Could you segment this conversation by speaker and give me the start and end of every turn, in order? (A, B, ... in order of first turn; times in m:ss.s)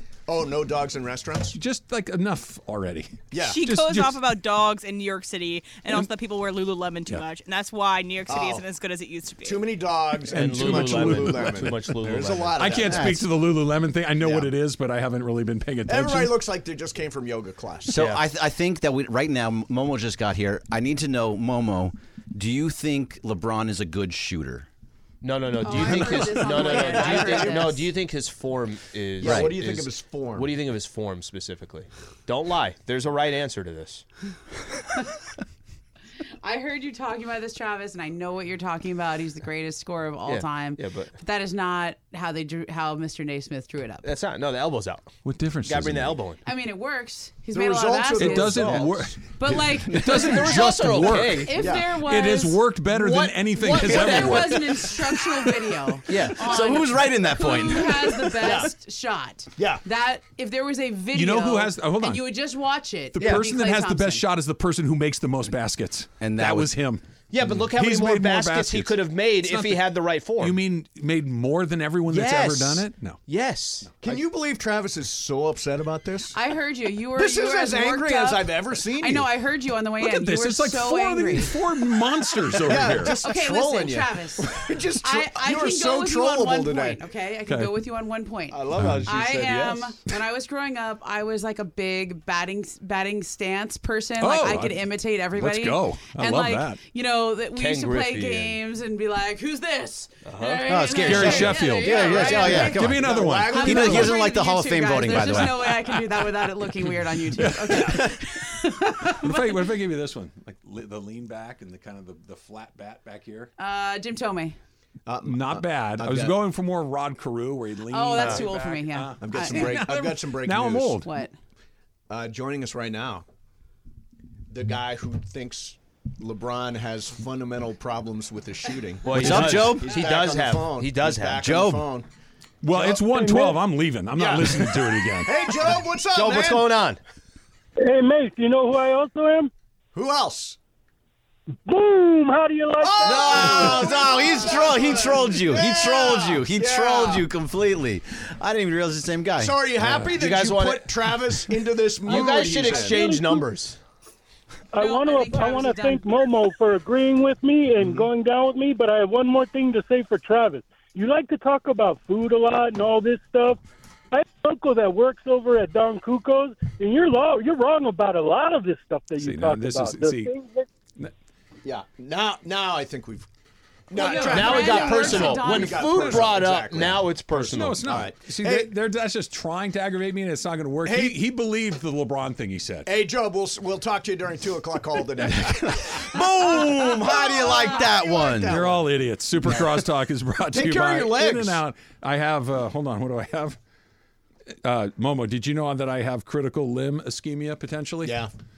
0:00.3-0:01.6 A
0:01.6-0:04.2 B
0:03.3-0:03.6 A
0:03.4-0:09.7 C
0:08.3-0:08.6 A
0:09.4-0:13.2 A
0:10.3-0:11.9 B
0:10.3-0:12.8 D
0:12.6-0:16.4 B
0:12.8-0:13.2 E
0:14.2-0:14.5 A
0:15.9-0:18.1 A
0:17.9-0:24.7 E
0:17.9-0:18.2 D
0:25.2-0:34.0 D
0:25.6-0:27.9 F
0:25.9-0:27.8 A
0:29.2-0:30.6 A
0:29.2-0:29.6 E
0:36.4-0:44.1 F
0:40.2-0:41.1 D
0:44.0-0:45.1 D
0:45.2-0:46.2 B
0:45.6-0:46.4 D
0:46.4-0:50.4 F
0:47.5-0:49.6 A
0:48.2-0:54.9 B
0:50.1-0:51.5 D
0:51.4-0:52.6 F
0:51.5-0:51.9 A
0:52.9-0:54.9 D
0:53.9-1:04.2 F
0:56.1-0:57.0 D
0:56.2-0:58.7 E
0:58.4-0:58.7 A
0:58.4-0:58.7 D
0:59.6-0:59.8 A
1:01.1-1:02.2 B
1:03.2-1:07.0 B
1:06.2-1:06.7 E
1:07.3-1:10.6 D
1:07.6-1:13.2 B
1:12.1-1:13.9 D
1:14.0-1:16.4 A
1:16.3-1:21.6 F
1:17.1-1:19.3 A
1:20.0-1:23.2 B
1:22.6-1:27.0 A
1:22.9-1:42.9 F
1:27.5-1:27.7 B
1:28.5-1:30.0 A
1:28.8-1:29.1 B
1:34.2-1:36.8 B
1:37.6-1:38.6 D
1:40.3-1:40.6 D
1:40.6-1:45.8 E
1:41.0-1:43.9 B
1:41.2-1:44.2 A
1:43.5-1:49.6 F
1:46.8-1:53.5 B
1:53.6-1:54.6 F
1:55.1-1:56.4 A
1:55.2-2:01.1 B
1:57.9-1:59.9 F
1:58.2-1:58.5 D
1:59.2-2:01.0 A
2:01.0-2:01.3 F
2:02.1-2:03.2 A
2:04.5-2:12.1 A
2:09.0-2:11.4 D
2:09.1-2:10.0 E
2:11.4-2:11.8 E
2:12.6-2:15.4 B
2:12.7-2:13.4 A
2:14.2-2:16.7 A
2:16.1-2:17.0 D
2:17.8-2:19.5 G
2:19.9-2:20.6 A
2:21.6-2:24.1 G
2:22.8-2:27.3 A
2:23.4-2:29.6 E
2:29.4-2:33.0 A
2:29.8-2:30.1 B
2:30.1-2:30.9 D
2:31.1-2:31.5 B
2:32.1-2:33.8 D
2:32.9-2:33.5 G
2:34.7-2:43.6 G
2:34.8-2:36.1 F
2:44.1-2:50.7 G
2:49.2-2:50.3 B
2:51.6-2:53.2 A
2:53.9-2:58.7 A
2:53.9-2:56.3 F
2:54.0-2:57.8 D
2:57.4-3:02.9 B
3:00.8-3:01.2 A
3:02.9-3:08.9 A
3:05.3-3:08.6 E
3:08.5-3:13.6 B
3:10.5-3:11.6 A
3:14.6-3:18.2 B
3:18.0-3:18.3 A